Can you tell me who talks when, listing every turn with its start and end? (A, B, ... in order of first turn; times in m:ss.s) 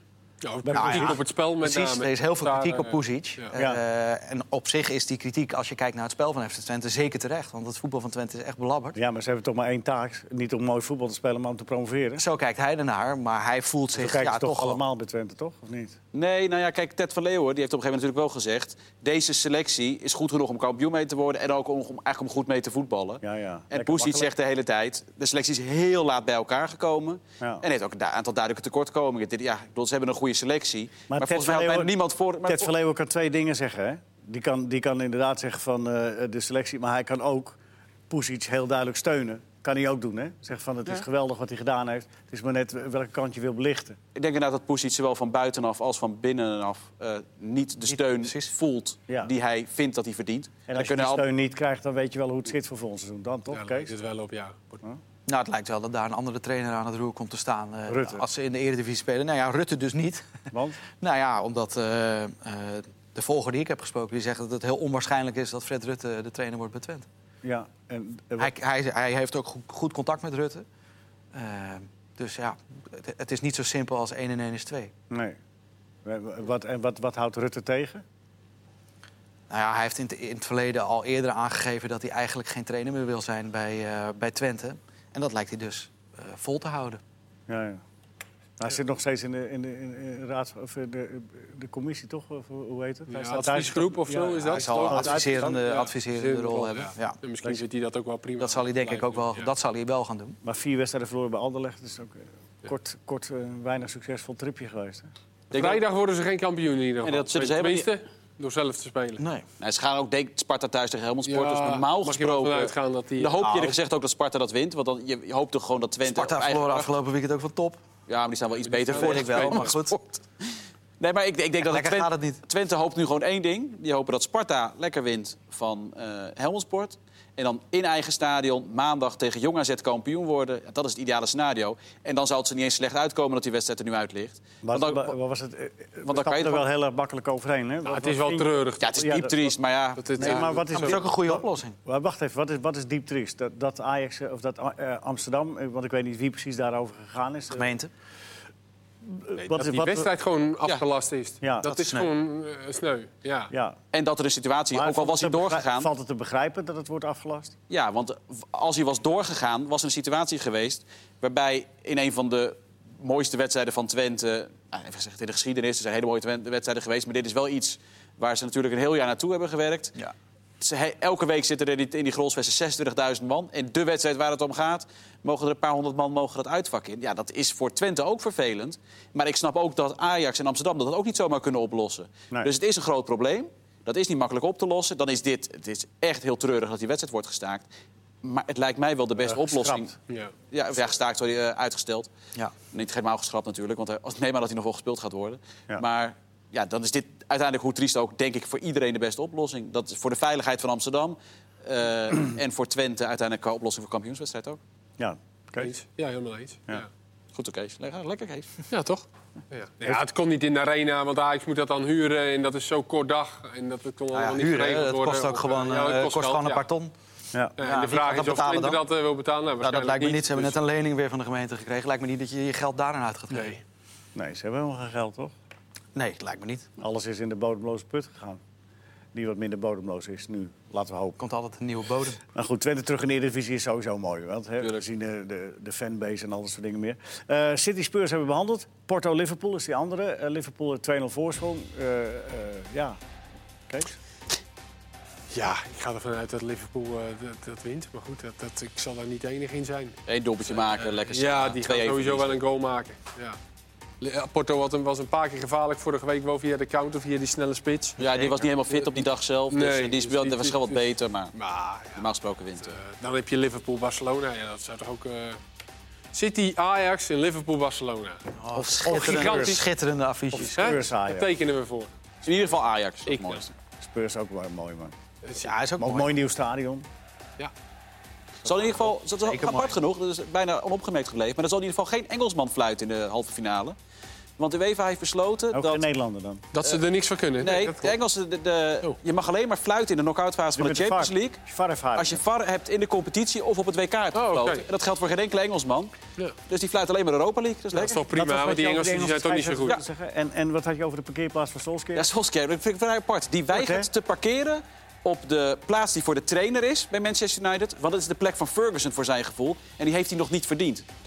0:00.4-0:03.5 A
0:00.6-0:01.2 B
0:00.7-0:09.0 C
0:03.5-0:03.8 B
0:08.9-0:12.2 B
0:12.2-0:14.8 C
0:13.9-0:16.0 B
0:16.1-0:32.7 D
0:23.2-0:24.3 B
0:31.1-0:31.9 B
0:32.4-0:37.6 B
0:38.1-0:44.0 B
0:44.1-0:51.2 D
0:47.9-0:48.5 C
0:50.7-0:53.9 B
0:53.5-0:54.8 A
0:55.2-1:07.0 C
0:57.9-0:58.2 B
1:00.5-1:00.8 B
1:07.4-1:08.5 B
1:08.4-1:10.6 C
1:11.3-1:14.9 C
1:15.1-1:15.4 B
1:16.0-1:18.0 B
1:19.5-1:27.0 C
1:27.5-1:27.8 B
1:28.6-1:35.6 B
1:33.1-1:39.5 A
1:34.5-1:37.2 C
1:38.4-1:40.4 C
1:40.4-1:45.1 B
1:45.5-1:45.8 D
1:45.5-1:49.2 A
1:47.0-1:47.9 D
1:49.2-1:49.4 C
1:49.6-1:56.9 D
1:51.3-1:53.3 A
1:53.4-1:53.8 C
1:56.0-1:57.8 C
1:58.1-2:00.0 D
1:58.6-1:59.8 A
1:58.9-2:00.2 C
2:01.0-2:15.1 D
2:01.6-2:02.4 C
2:14.6-2:19.5 B
2:16.0-2:16.6 D
2:17.8-2:18.9 A
2:18.8-2:21.0 D
2:20.0-2:20.6 A
2:20.2-2:27.7 B
2:20.7-2:21.7 C
2:27.5-2:27.9 C
2:29.0-2:30.1 B
2:29.4-2:33.5 A
2:31.4-2:31.7 B
2:31.6-2:32.1 C
2:33.5-2:33.8 B
2:33.9-2:35.9 D
2:34.7-2:37.5 B
2:37.7-2:50.0 D
2:50.6-3:07.7 D
3:08.2-3:09.9 D
3:09.2-3:09.9 B
3:10.5-3:12.1 D
3:12.7-3:24.6 D
3:25.0-3:25.7 B
3:25.6-3:26.9 A
3:27.3-3:28.6 D
3:28.7-3:36.6 A
3:34.1-3:36.9 C
3:37.6-3:40.6 A
3:37.6-3:38.8 C
3:39.6-3:43.6 C
3:43.3-3:43.6 A
3:44.1-3:45.3 B
3:45.9-3:46.7 C
3:46.8-3:48.4 B
3:49.1-3:51.2 B
3:51.2-3:52.2 C
3:52.3-4:03.0 B
4:03.7-4:03.9 B
4:05.3-4:13.4 A
4:10.1-4:12.4 D
4:14.0-4:18.0 A
4:18.0-4:18.5 C
4:18.0-4:21.3 D
4:19.5-4:20.8 A
4:21.3-4:22.0 A
4:21.9-4:22.8 D
4:22.6-4:25.4 A
4:26.1-4:28.2 A
4:28.4-4:30.8 C
4:28.5-4:29.6 B
4:28.9-4:29.6 A
4:30.3-4:31.3 B
4:30.6-4:31.9 A
4:32.2-4:33.5 D
4:33.0-4:33.4 A
4:33.8-4:34.9 B
4:35.2-4:35.5 A
4:35.4-4:36.1 C
4:35.8-4:36.8 B
4:38.4-4:43.8 D
4:39.2-4:39.7 C
4:44.4-4:45.8 D
4:45.5-4:46.4 B
4:46.5-4:47.9 A
4:47.4-4:51.4 D
4:50.6-4:52.2 B
4:52.0-4:55.9 D
4:54.1-4:54.6 A
4:56.5-4:58.0 D
4:57.7-4:59.8 A
4:58.1-5:02.1 B
5:01.9-5:10.8 D
5:03.5-5:03.9 B